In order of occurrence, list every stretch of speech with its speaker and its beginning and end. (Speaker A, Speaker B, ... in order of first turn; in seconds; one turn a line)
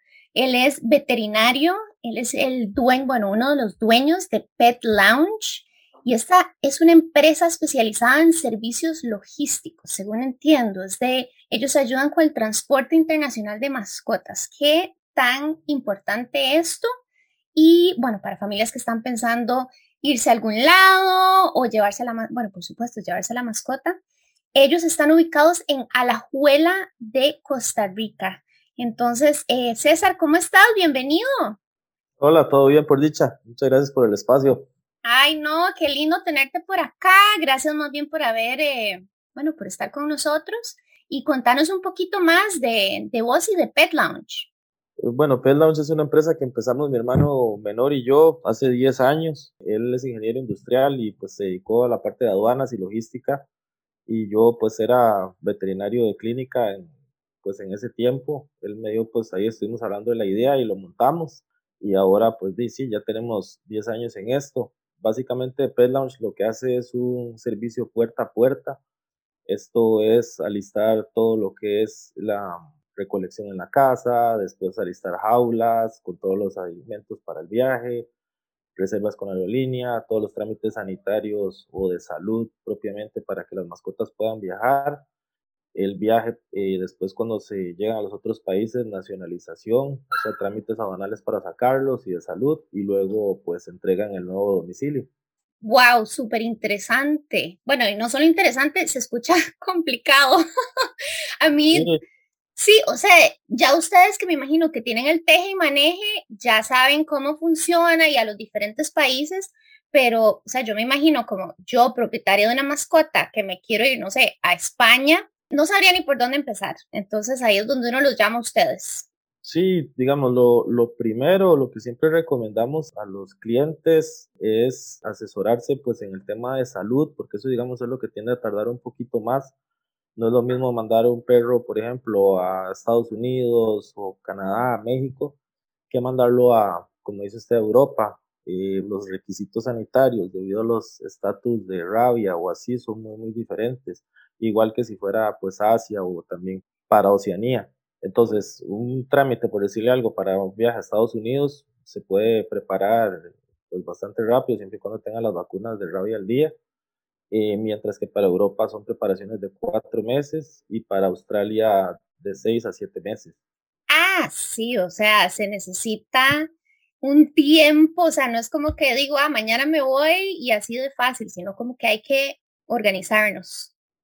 Speaker A: 0.3-16.9
Speaker A: 17.6-24.0
Speaker A: 24.6-31.6
Speaker B: 32.2-34.7
Speaker A: 35.0-44.5
Speaker B: 45.0-53.5
Speaker B: 54.1-56.9
Speaker B: 57.4-68.8
Speaker B: 69.5-78.1
Speaker B: 78.8-85.0
Speaker B: 85.8-95.1
Speaker A: 95.6-100.9
Speaker A: 101.4-101.9
Speaker B: 101.7-102.0
Speaker A: 102.6-119.1
Speaker B: 119.4-129.5
Speaker B: 130.2-135.4
Speaker B: 135.9-156.5
Speaker B: 157.3-163.4
Speaker A: 163.9-166.5
Speaker A: 167.0-173.7